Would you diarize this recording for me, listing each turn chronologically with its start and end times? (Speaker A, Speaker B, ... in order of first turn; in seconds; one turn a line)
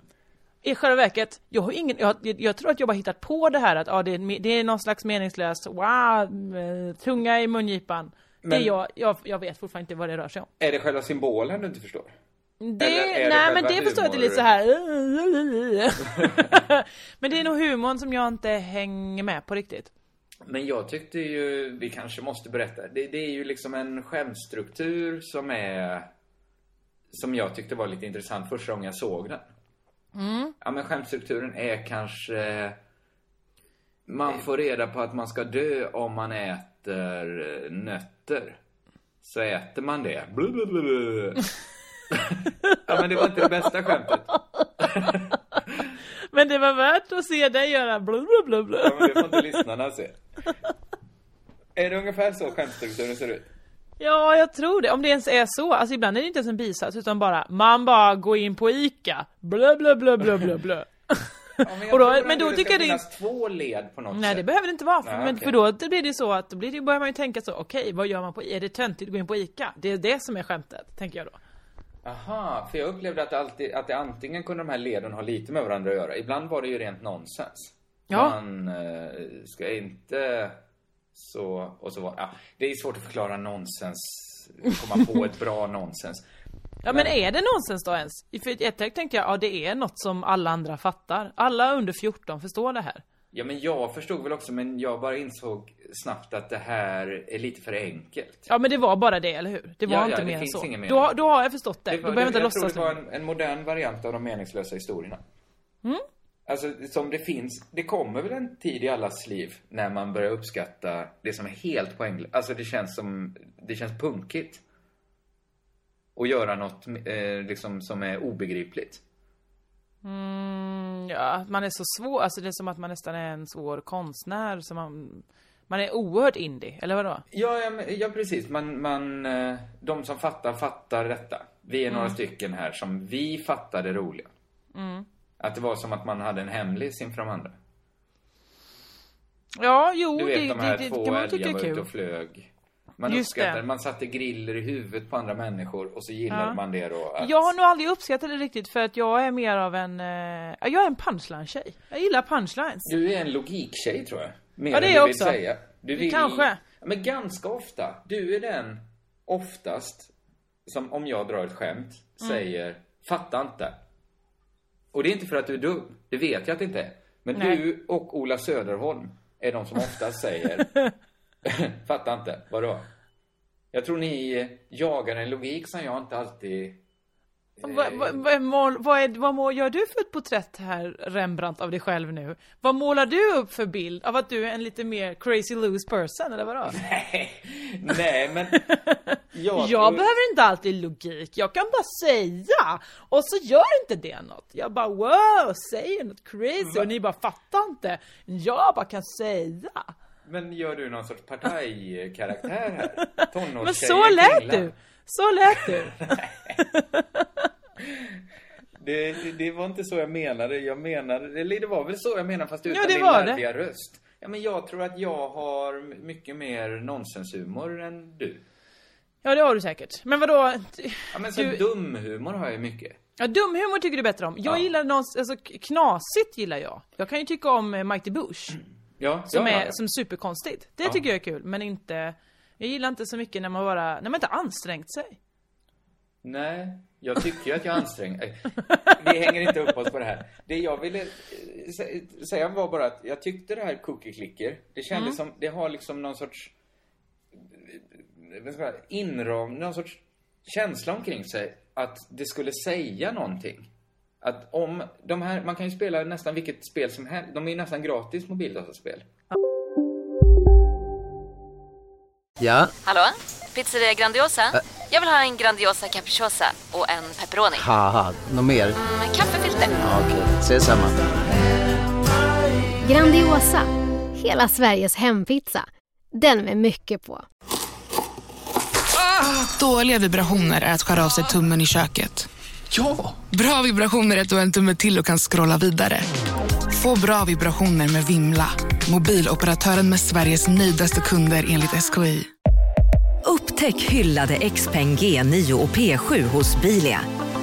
Speaker A: 0.6-10.5
Speaker B: 8.4-8.7
Speaker B: 10.6-12.1
Speaker A: 12.6-19.9
Speaker B: 12.8-14.4
Speaker B: 20.4-26.1
Speaker B: 27.1-29.4
Speaker A: 30.1-30.5
Speaker B: 30.6-32.8
Speaker B: 34.0-38.6
Speaker B: 39.2-41.4
Speaker B: 42.1-44.3
Speaker B: 44.8-45.8
Speaker A: 46.3-49.4
Speaker B: 48.8-50.2
Speaker B: 51.7-53.5
Speaker A: 54.0-61.3
Speaker B: 61.6-64.5
Speaker A: 61.9-63.0
Speaker A: 64.1-71.4
Speaker B: 65.0-65.5
Speaker B: 72.0-80.6
Speaker A: 78.1-78.3
Speaker B: 81.1-86.2
Speaker A: 86.8-93.0
Speaker B: 86.9-87.1
Speaker B: 93.3-98.5
Speaker A: 98.5-103.0
Speaker B: 99.8-101.1
Speaker B: 101.9-105.2
Speaker B: 106.5-114.6
Speaker B: 116.2-119.0
Speaker A: 120.0-127.2
Speaker B: 127.3-134.3
Speaker A: 131.9-132.2
Speaker A: 134.7-135.1
Speaker B: 135.4-137.6
Speaker A: 139.6-141.8
Speaker B: 140.1-147.5
Speaker A: 143.1-143.6
Speaker A: 146.3-146.6
Speaker A: 147.2-152.9
Speaker B: 152.8-160.1
Speaker A: 154.7-155.4
Speaker A: 155.9-156.6
Speaker B: 160.7-163.8
Speaker B: 164.9-170.7
Speaker A: 167.3-167.6
Speaker B: 171.4-172.9
Speaker B: 173.7-176.8
Speaker B: 177.6-178.2
Speaker A: 177.6-186.8
Speaker B: 186.7-188.6
Speaker A: 188.7-199.9
Speaker B: 189.3-190.1
Speaker B: 196.6-196.9
Speaker B: 200.2-204.7
Speaker A: 203.2-206.0
Speaker B: 205.9-206.5
Speaker A: 206.7-207.2
Speaker B: 208.8-218.4
Speaker A: 212.7-213.4
Speaker A: 219.2-221.6
Speaker B: 221.1-223.0
Speaker A: 223.2-228.6
Speaker B: 229.0-229.8
Speaker A: 229.3-235.2
Speaker B: 236.2-246.5
Speaker B: 247.4-253.7
Speaker B: 254.2-259.1
Speaker C: 262.4-262.7
Speaker D: 262.8-267.7
Speaker C: 267.6-268.7
Speaker D: 268.8-269.8
Speaker C: 269.8-271.0
Speaker E: 272.9-277.2
Speaker F: 278.9-282.3
Speaker F: 283.2-286.1
Speaker F: 286.7-292.3
Speaker G: 293.2-297.1